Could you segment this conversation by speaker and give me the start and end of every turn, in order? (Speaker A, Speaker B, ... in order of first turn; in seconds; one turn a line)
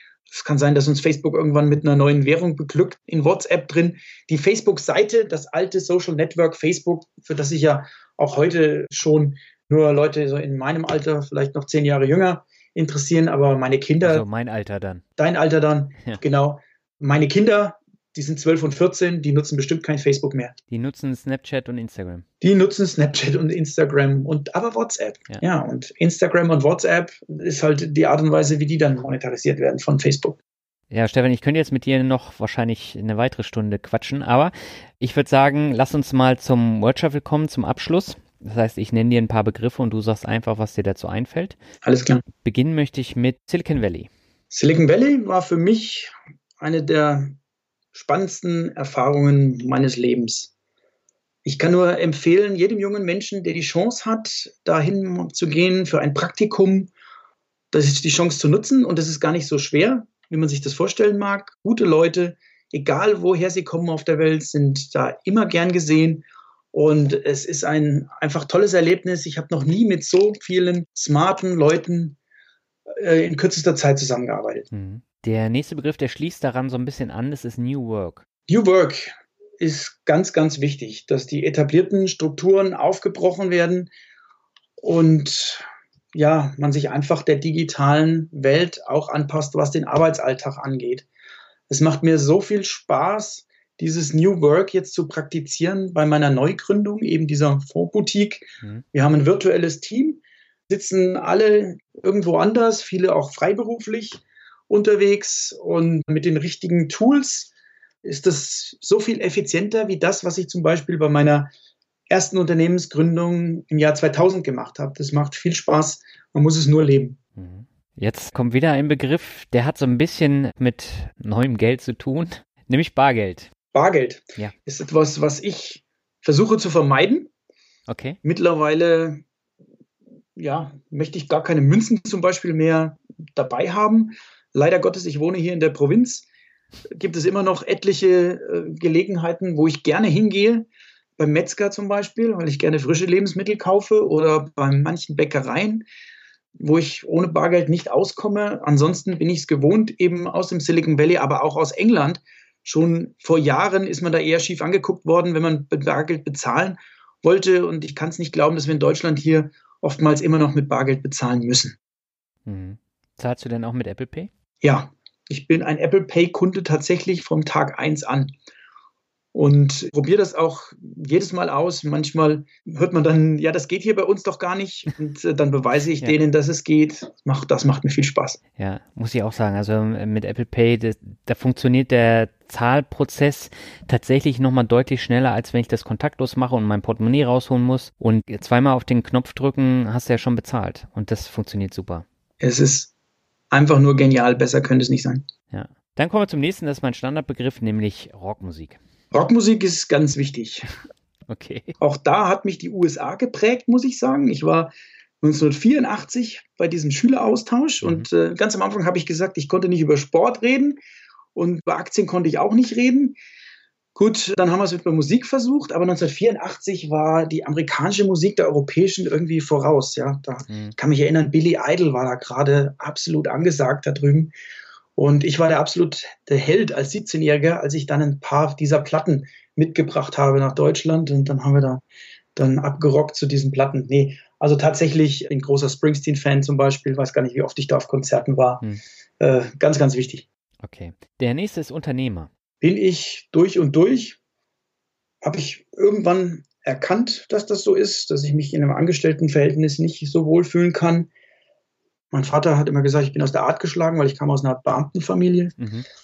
Speaker A: 0.3-14.2
Speaker B: 14.0-15.0
Speaker A: 15.2-20.5
Speaker B: 20.7-22.2
Speaker A: 22.4-30.4
Speaker B: 30.9-41.6
Speaker A: 41.8-42.2
Speaker B: 42.4-44.1
Speaker A: 44.5-47.4
Speaker A: 47.9-50.5
Speaker A: 51.4-56.9
Speaker A: 57.7-72.2
Speaker A: 72.9-74.7
Speaker B: 74.7-78.2
Speaker A: 78.5-83.9
Speaker A: 84.8-91.1
Speaker A: 91.7-107.5
Speaker A: 108.0-111.5
Speaker A: 112.1-117.2
Speaker B: 117.3-123.5
Speaker A: 123.7-127.3
Speaker B: 127.9-128.2
Speaker A: 128.2-129.2
Speaker A: 130.3-136.3
Speaker A: 136.9-145.9
Speaker A: 146.6-161.8
Speaker B: 162.4-164.3
Speaker A: 164.6-168.3
Speaker A: 169.3-178.4
Speaker B: 178.6-192.1
Speaker A: 192.4-192.9
Speaker A: 193.5-195.2
Speaker B: 195.5-198.8
Speaker A: 199.1-200.7
Speaker B: 201.3-201.7
Speaker A: 201.8-210.8
Speaker B: 207.8-208.1
Speaker A: 211.3-213.2
Speaker A: 213.9-224.3
Speaker B: 220.5-220.8
Speaker A: 224.9-231.8
Speaker A: 232.3-238.6
Speaker A: 239.2-240.2
Speaker B: 240.6-242.3
Speaker A: 242.6-244.2
Speaker A: 245.2-251.1
Speaker A: 252.1-255.5
Speaker B: 255.6-255.8